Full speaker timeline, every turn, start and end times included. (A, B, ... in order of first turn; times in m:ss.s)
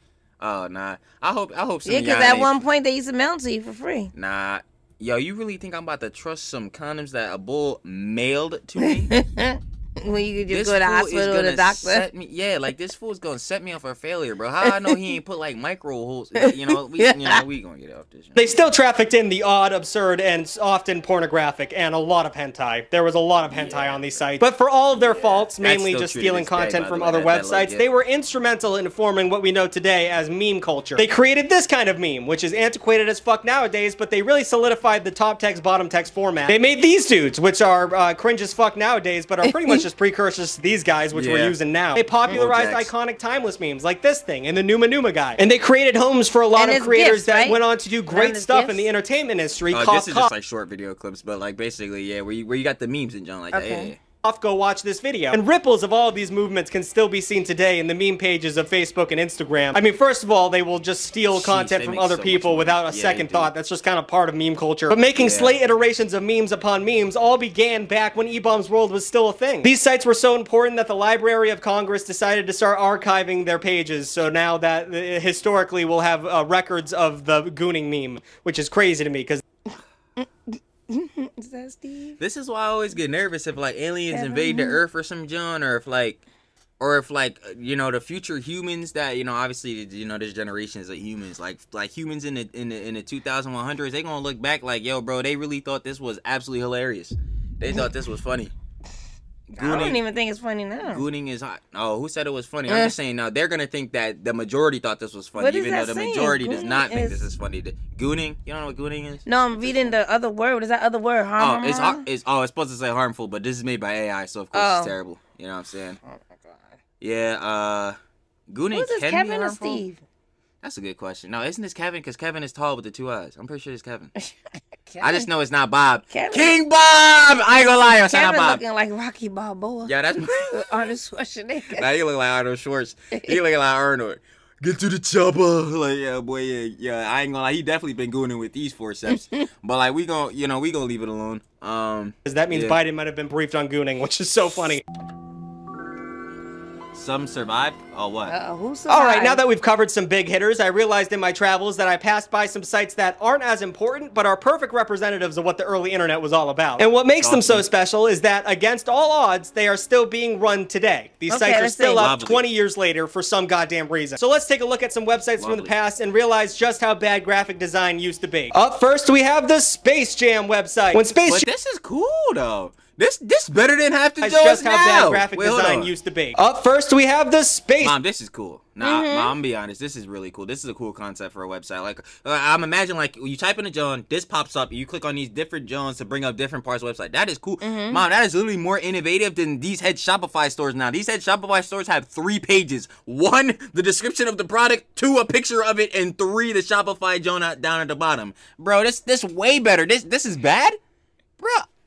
0:00.4-0:02.6 A
0:01.9-0:04.1 B
0:04.2-0:09.1 A
0:08.8-0:12.0 B
0:10.5-0:18.6 A
0:14.6-0:15.0 B
0:16.4-0:17.4 B
0:18.4-0:50.3 C
0:23.5-0:24.2 A
0:24.9-0:27.8 A
0:39.4-0:39.8 B
0:41.1-0:41.6 A
0:42.3-0:42.9 A
0:46.6-0:48.8 B
0:49.7-0:54.0 A
0:53.5-0:53.9 B
0:54.2-1:19.4 C
1:01.3-1:03.5 A
1:05.2-1:05.5 A
1:20.2-1:22.2 B
1:22.2-1:26.2 A
1:24.1-1:24.8 B
1:26.8-1:38.5 A
1:39.5-1:40.0 A
1:39.6-1:41.0 B
1:40.8-1:50.0 A
1:42.7-1:42.9 B
1:45.4-1:47.3 B
1:49.3-1:52.0 B
1:51.4-1:56.0 A
1:54.5-1:54.9 B
1:56.1-1:56.5 B
1:57.0-1:58.0 A
1:58.5-1:59.8 A
1:58.7-2:00.0 B
2:00.6-2:04.1 A
2:04.9-2:05.3 B
2:05.0-2:08.6 A
2:06.1-2:06.6 B
2:08.1-2:09.9 B
2:09.8-2:10.9 A
2:10.5-2:11.9 B
2:11.7-2:22.8 A
2:22.3-2:24.8 C
2:26.9-2:28.3 A
2:28.3-2:29.4 B
2:28.9-2:51.5 C
2:37.2-2:37.7 A
2:41.3-2:42.1 B
2:42.0-2:42.4 A
2:45.4-2:45.7 A
2:51.2-2:55.9 A
2:54.2-2:58.0 C
2:57.8-3:20.8 A
2:58.8-2:59.3 B
3:07.6-3:08.0 B
3:21.4-3:21.7 A